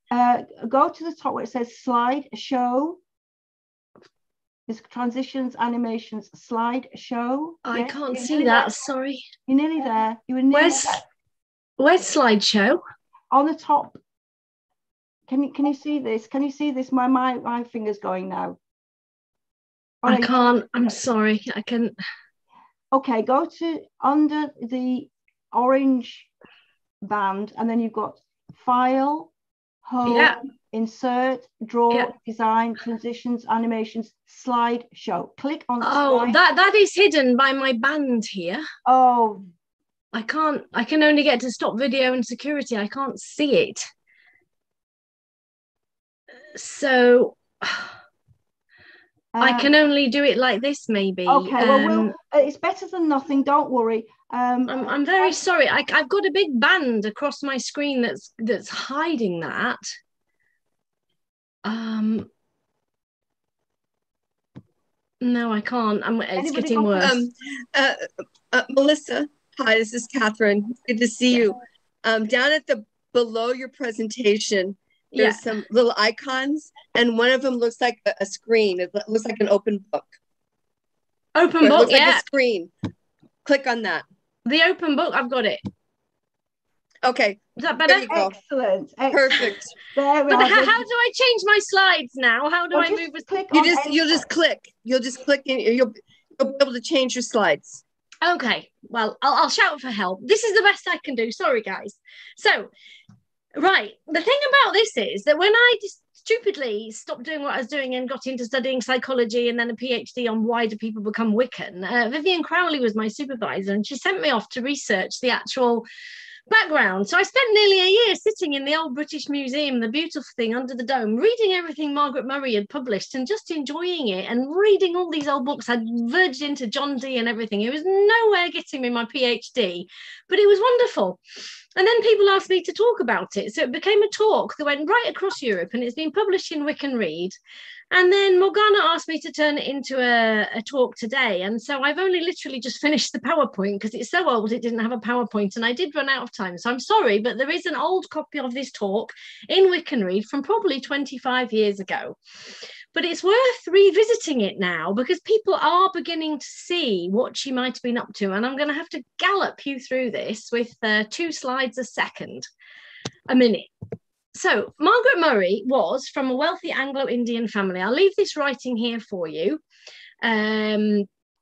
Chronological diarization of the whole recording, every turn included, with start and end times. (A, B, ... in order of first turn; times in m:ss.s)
0:00.1-0:03.0 A
0:04.7-0:08.8 A
0:07.6-0:09.3 B
0:09.5-0:11.0 A
0:10.5-0:11.0 B
0:11.8-0:12.8 B
0:13.3-0:14.0 A
0:15.3-0:18.6 A
0:20.0-0:20.4 A
0:20.0-0:22.0 B
0:22.9-0:26.3 A
0:27.0-0:29.3 A
0:29.8-0:36.4 A
0:30.1-0:30.4 B
0:35.8-0:38.6 B
0:38.8-0:39.5 A
0:40.1-0:43.9 B
0:46.5-0:47.9 B
0:49.3-0:49.7 A
0:49.4-0:52.1 B
0:51.3-0:55.4 A
0:54.7-0:59.8 B
1:01.6-1:02.3 B
1:05.2-1:07.2 B
1:06.4-1:07.1 A
1:07.0-1:08.0 C
1:08.5-1:20.2 C
1:15.2-1:15.4 B
1:21.4-1:22.2 B
1:21.6-1:22.7 C
1:23.4-1:24.0 C
1:24.4-1:25.6 B
1:27.0-1:28.3 C
1:27.6-1:28.2 B
1:28.1-1:30.8 A
1:29.1-1:29.8 C
1:30.3-1:33.3 B
1:32.7-1:34.2 A
1:33.5-1:37.8 C
1:38.2-1:42.7 B
1:43.6-1:55.9 B
1:56.5-2:11.2 B
2:11.8-2:17.4 B
2:17.9-2:32.2 B
2:32.9-2:42.5 B
2:43.3-2:43.7 B
2:44.3-2:49.6 B
2:50.2-2:51.1 B